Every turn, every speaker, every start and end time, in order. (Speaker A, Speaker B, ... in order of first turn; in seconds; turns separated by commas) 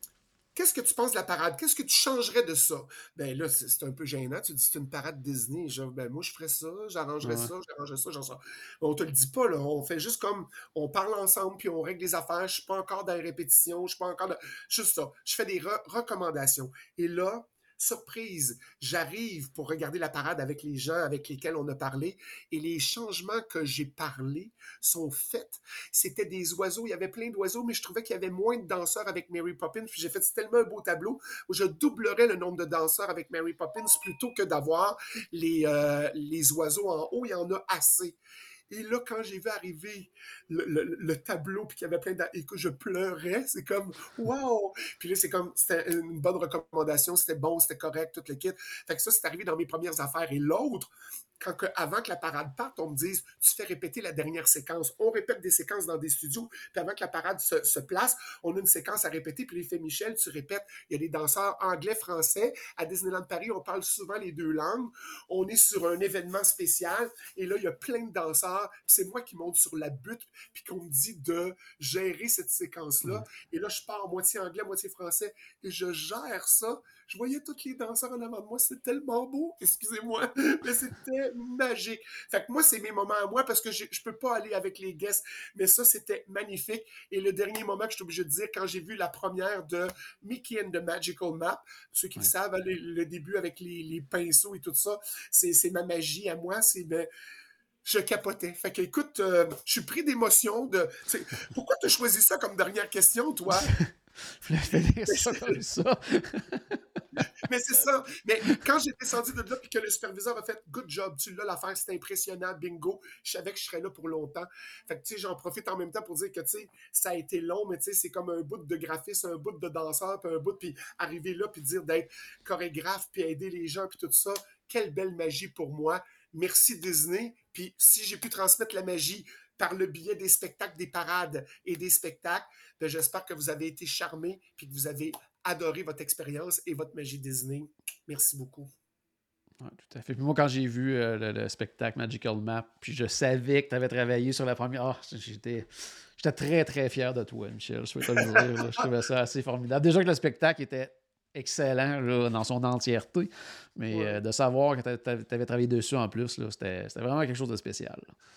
Speaker A: 0.5-38.2, Speaker B: 7.2-7.5, Speaker A: 38.7-97.1, Speaker A: 97.8-103.7, Speaker B: 103.6-107.2, Speaker A: 105.1-105.6, Speaker A: 107.4-138.7, Speaker B: 139.6-158.1, Speaker A: 148.0-148.9, Speaker A: 153.9-154.2